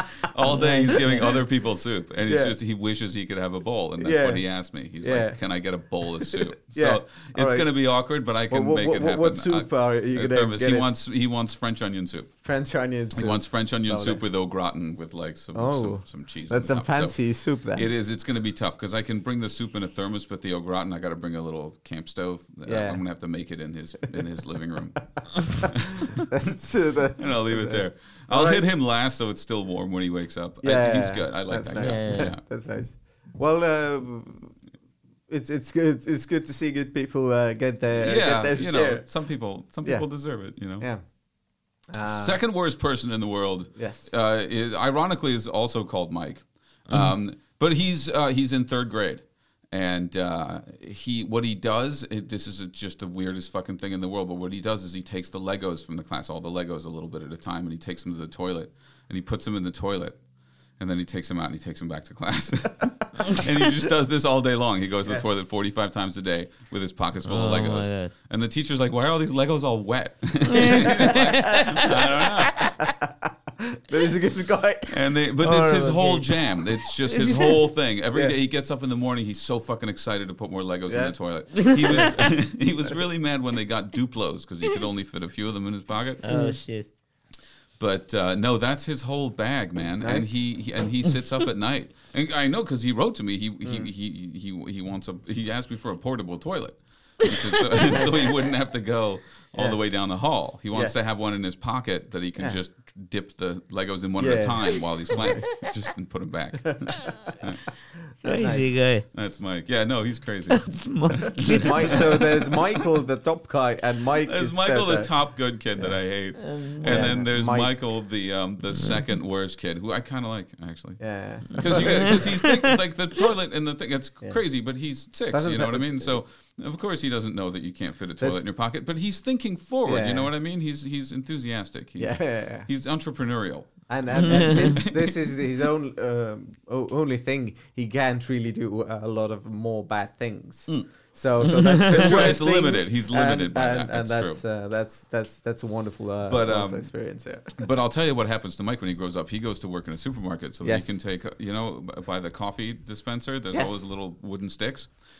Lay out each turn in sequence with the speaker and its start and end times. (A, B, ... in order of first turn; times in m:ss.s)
0:00.3-0:12.3 A
0:00.4-0:01.4 B
0:02.3-0:02.6 B
0:04.0-0:05.4 B
0:06.0-0:07.7 B
0:08.5-0:10.9 B
0:12.4-0:14.2 B
0:13.1-0:26.2 A
0:15.5-0:17.9 B
0:22.6-0:23.0 B
0:26.3-0:28.6 B
0:27.2-0:32.4 A
0:30.6-0:34.6 B
0:31.8-0:32.3 C
0:35.3-0:39.1 B
0:37.9-0:40.9 A
0:39.8-0:40.1 B
0:40.8-0:41.0 B
0:41.9-0:42.4 B
0:42.0-1:00.2 A
0:43.7-0:44.1 B
1:00.8-1:12.7 A
1:07.2-1:08.1 C
1:10.5-1:12.7 C
1:10.7-1:11.3 B
1:12.6-1:14.9 B
1:14.9-1:26.2 A
1:15.4-1:16.3 C
1:17.0-1:17.7 C
1:20.9-1:22.0 B
1:21.9-1:22.1 C
1:26.2-1:26.9 C
1:26.3-1:26.6 B
1:27.8-1:47.6 A
1:30.0-1:30.4 B
1:33.6-1:33.9 B
1:37.8-1:38.4 B
1:44.2-1:45.4 B
1:46.6-1:47.0 B
1:48.2-1:48.7 B
1:48.2-1:49.0 C
1:49.1-1:52.2 A
1:50.5-1:52.1 C
1:51.4-1:55.1 B
1:54.2-2:15.1 A
1:56.4-1:57.2 C
1:56.8-1:57.7 B
2:01.0-2:02.4 B
2:01.6-2:02.6 C
2:05.3-2:06.2 B
2:09.8-2:10.3 B
2:12.0-2:12.7 B
2:13.9-2:27.6 B
2:14.2-2:14.8 C
2:21.5-2:24.4 A
2:26.2-2:26.9 A
2:27.5-2:34.9 A
2:30.6-2:30.9 B
2:33.5-2:33.8 B